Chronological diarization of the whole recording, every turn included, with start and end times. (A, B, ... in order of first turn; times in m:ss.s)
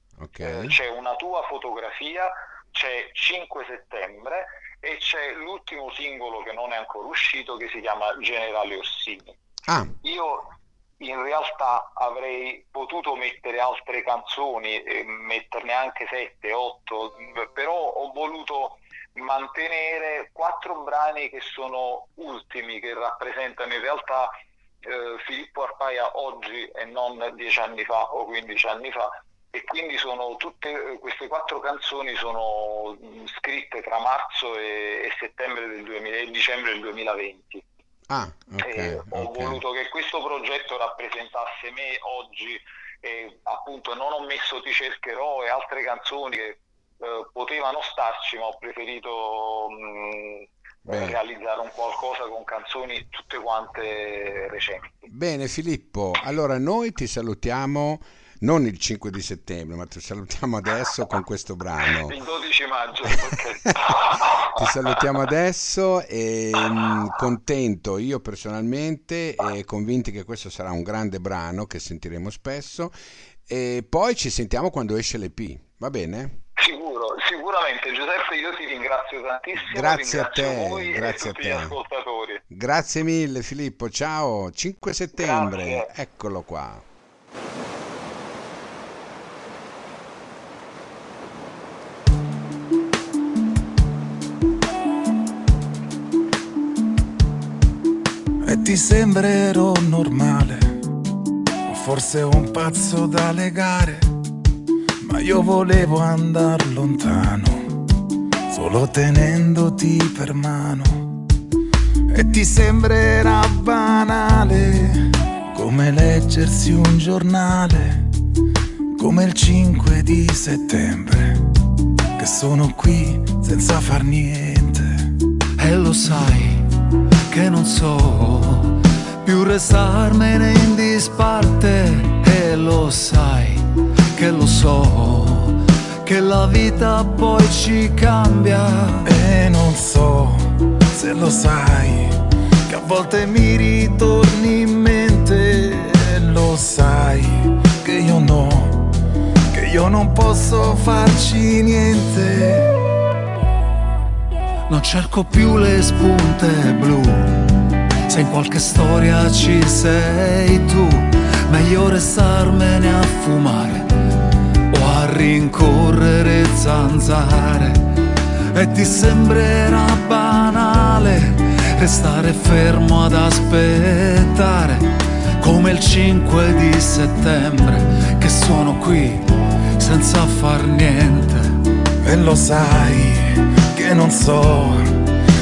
0:00.2-0:00.8 A
0:00.4-0:09.4 B
0:09.7-0:09.9 A
0:10.0-0:24.3 B
0:24.8-0:37.6 B
0:38.1-0:39.6 A
0:38.6-0:55.1 B
0:50.9-0:51.2 A
0:55.1-1:02.2 A
1:02.0-1:05.0 B
1:04.5-1:12.9 A
1:13.5-1:16.4 A
1:16.6-1:22.4 B
1:19.6-1:21.8 A
1:22.5-1:26.8 A
1:25.2-1:25.9 B
1:38.4-1:40.7 C
1:41.7-1:44.1 C
1:45.0-1:47.8 C
1:48.5-1:51.0 C
1:52.1-1:58.0 C
1:59.0-2:01.4 C
2:02.2-2:04.9 C
2:05.6-2:06.7 D
2:07.3-2:19.1 D
2:19.0-2:20.4 C
2:20.9-2:22.2 C
2:22.7-2:28.9 C
2:29.5-2:32.7 C
2:34.7-2:37.4 D
2:38.1-2:43.9 D
2:44.7-2:48.0 D
2:48.5-3:01.5 D
3:02.0-3:04.9 C